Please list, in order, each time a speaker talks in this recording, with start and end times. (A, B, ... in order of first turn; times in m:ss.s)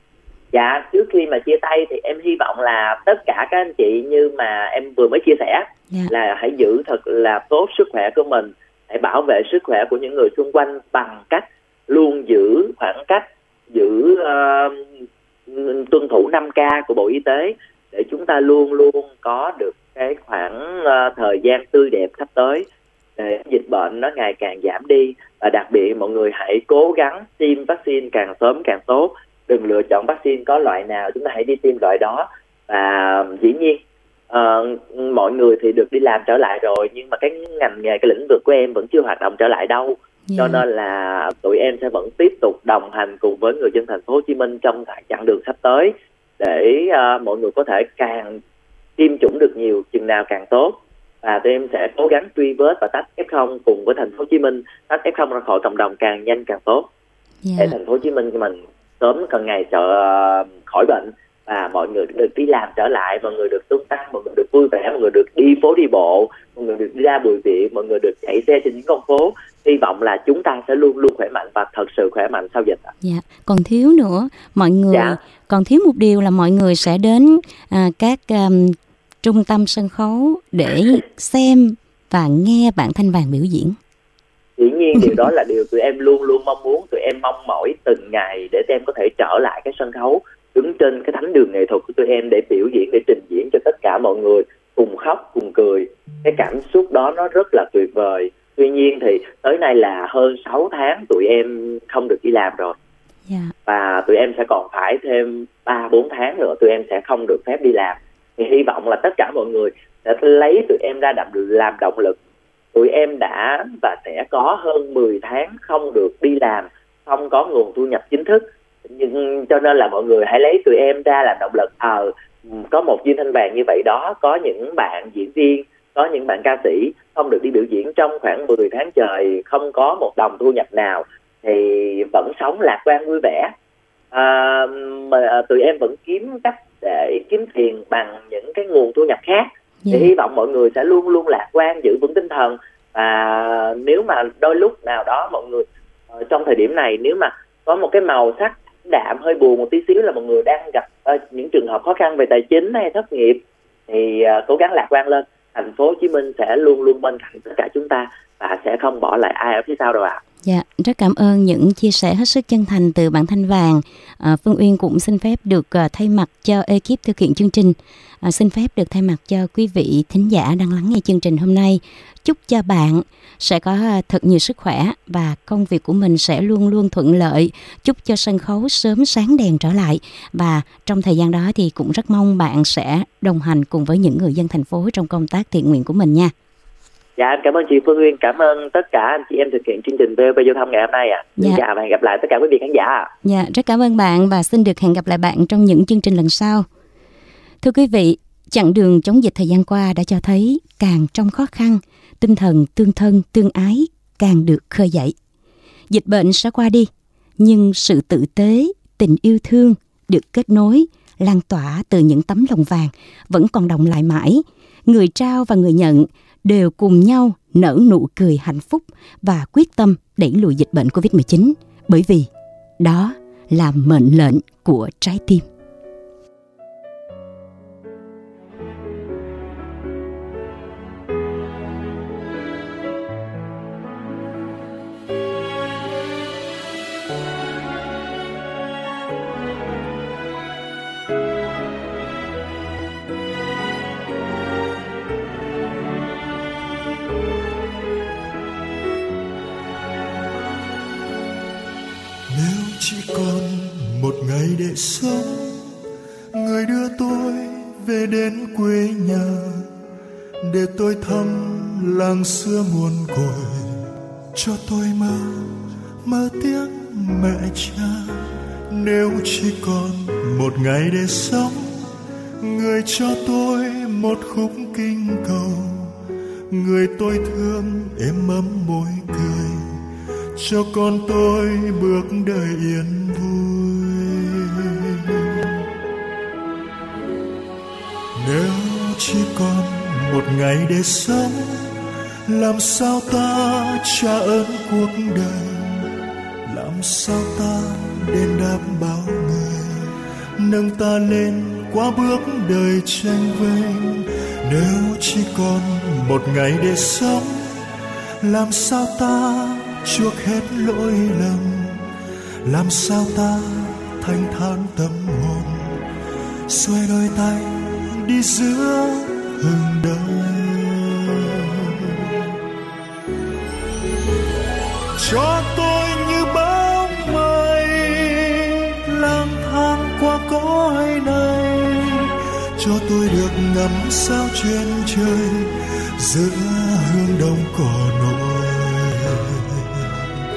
0:00.5-0:14.9 A
0:15.5-0:22.6 A
0:23.2-0:48.4 A
0:40.3-0:40.6 B
0:49.0-0:56.9 A
0:57.4-0:57.8 B
0:57.6-1:12.9 A
1:13.0-1:23.8 B
1:14.9-1:15.2 A
1:24.6-1:42.8 A
1:43.3-1:43.5 B
1:43.6-1:52.2 A
1:52.7-2:13.5 A
2:14.1-2:40.2 A
2:19.8-2:20.1 B
2:40.4-3:06.3 B
3:07.2-3:13.1 A
3:13.2-3:16.7 B
3:17.6-3:25.1 B
3:25.9-3:42.3 B
3:42.8-3:45.4 B
4:12.3-4:15.7 C
4:16.3-4:19.7 C
4:20.4-4:31.9 C
4:32.4-4:36.0 C
4:36.5-4:39.8 C
4:40.3-4:45.6 C
4:48.2-4:51.7 C
4:52.3-4:55.9 C
4:56.5-5:07.6 C
5:08.2-5:11.9 C
5:12.4-5:15.8 C
5:16.5-5:22.3 C
5:25.0-5:40.0 C